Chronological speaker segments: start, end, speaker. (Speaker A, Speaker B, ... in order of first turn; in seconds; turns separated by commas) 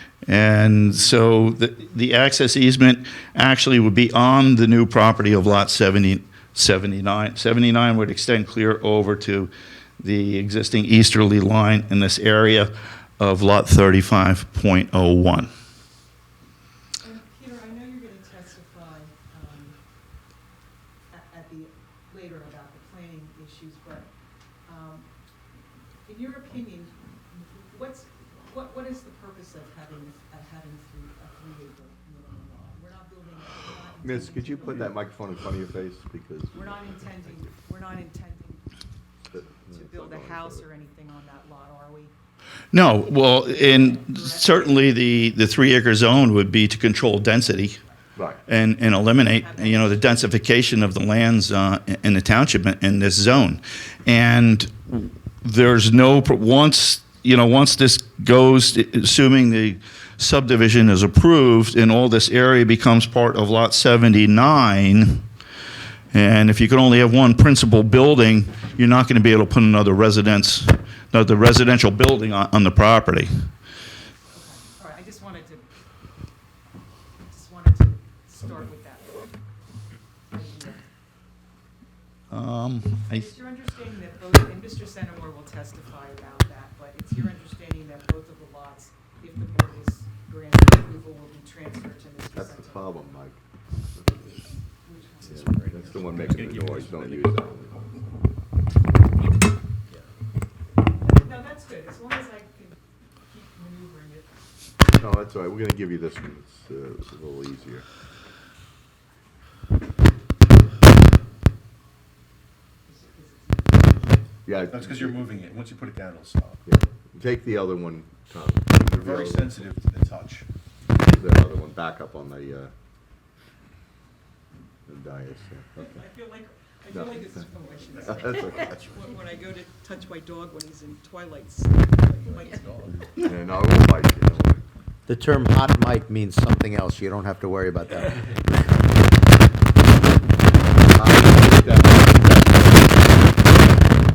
Speaker A: 0.2-15.5, Speaker B: 17.0-19.7, Speaker B: 21.1-24.1, Speaker B: 24.7-25.1, Speaker B: 26.1-35.0, Speaker C: 34.0-36.9, Speaker B: 36.5-38.6, Speaker C: 39.3-40.6, Speaker B: 39.6-42.1, Speaker A: 42.7-47.8, Speaker B: 43.4-45.2, Speaker A: 48.5-65.2, Speaker B: 49.1-50.0, Speaker A: 66.1-73.3, Speaker B: 74.3-75.6, Speaker B: 77.3-79.3, Speaker B: 80.3-80.8, Speaker A: 82.3-83.2, Speaker B: 83.0-92.9, Speaker C: 92.3-93.4, Speaker B: 94.8-96.1, Speaker C: 95.3-97.8, Speaker D: 95.4-97.4, Speaker B: 101.0-104.3, Speaker C: 105.0-107.8, Speaker B: 112.9-114.2, Speaker C: 114.4-115.2, Speaker D: 114.6-116.6, Speaker C: 116.7-119.5, Speaker D: 118.8-120.5, Speaker C: 120.9-122.7, Speaker C: 124.9-126.0, Speaker B: 125.8-133.2, Speaker C: 126.9-127.3, Speaker C: 128.0-128.8, Speaker D: 132.2-133.0, Speaker C: 133.2-134.6, Speaker E: 135.1-138.3, Speaker C: 140.9-143.3